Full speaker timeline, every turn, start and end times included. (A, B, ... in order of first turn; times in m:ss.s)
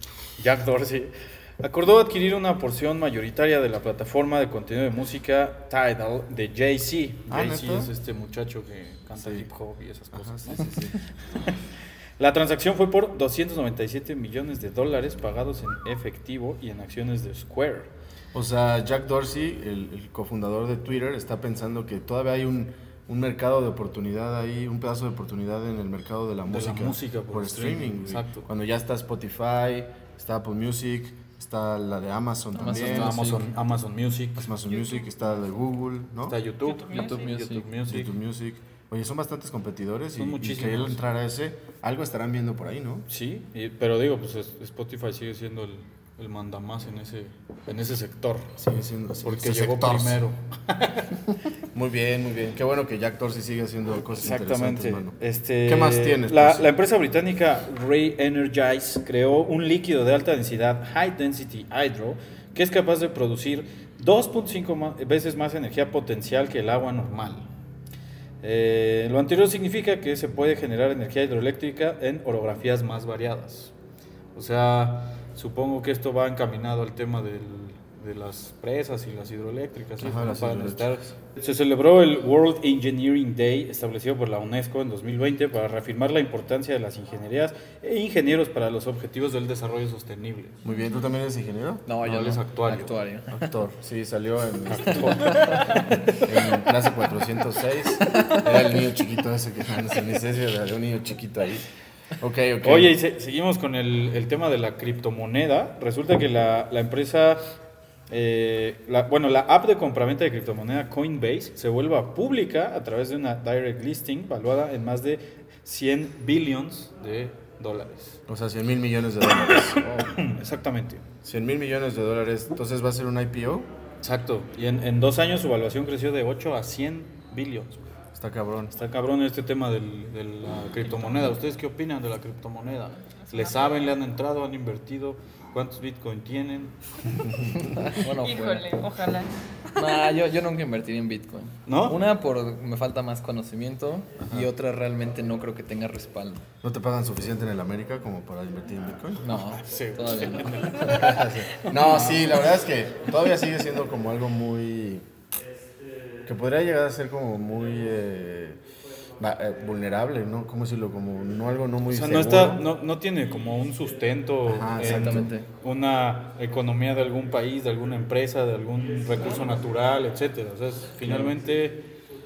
0:00.4-0:10.9 A
0:07.3-0:07.9 B
0:09.2-0:09.4 B
0:10.1-0:11.0 B
0:12.2-0:17.9 A
0:18.3-0:33.5 B
0:26.5-0:28.5 A
0:32.6-0:33.5 C
0:32.6-0:34.5 A
0:34.4-0:36.4 B
0:34.6-0:35.4 D
0:36.2-0:38.1 A
0:36.6-0:37.3 D
0:36.9-0:37.7 C
0:37.8-0:43.1 B
0:40.2-0:41.0 A
0:43.1-0:48.6 A
0:48.6-0:50.2 B
0:49.2-0:51.1 A
0:51.7-0:56.7 B
0:54.2-1:07.5 A
1:08.4-1:13.7 A
1:14.3-1:30.6 A
1:20.0-1:20.9 B
1:30.6-1:31.8 B
1:31.9-1:33.5 C
1:32.0-1:32.9 A
1:33.3-1:35.6 B
1:34.6-1:36.2 A
1:35.3-1:35.6 C
1:36.2-1:41.6 B
1:42.2-1:43.0 B
1:42.6-1:47.4 A
1:48.1-1:58.2 A
1:58.3-1:59.8 B
1:59.4-2:01.0 A
2:01.2-2:03.7 B
2:04.0-2:07.8 A
2:08.1-2:08.7 B
2:08.7-2:17.2 A
2:10.8-2:11.4 D
2:13.1-2:13.9 D
2:17.5-2:18.8 C
2:18.1-2:20.2 D
2:19.8-2:26.4 C
2:21.7-2:22.0 A
2:24.2-2:24.5 A
2:26.6-2:29.4 B
2:29.2-2:31.2 C
2:29.6-2:32.5 A
2:30.8-2:35.0 B
2:36.2-2:38.6 B
2:39.2-2:42.6 B
2:41.9-2:51.8 A
2:44.4-2:45.3 B
2:44.8-2:45.5 C
2:51.0-2:51.3 B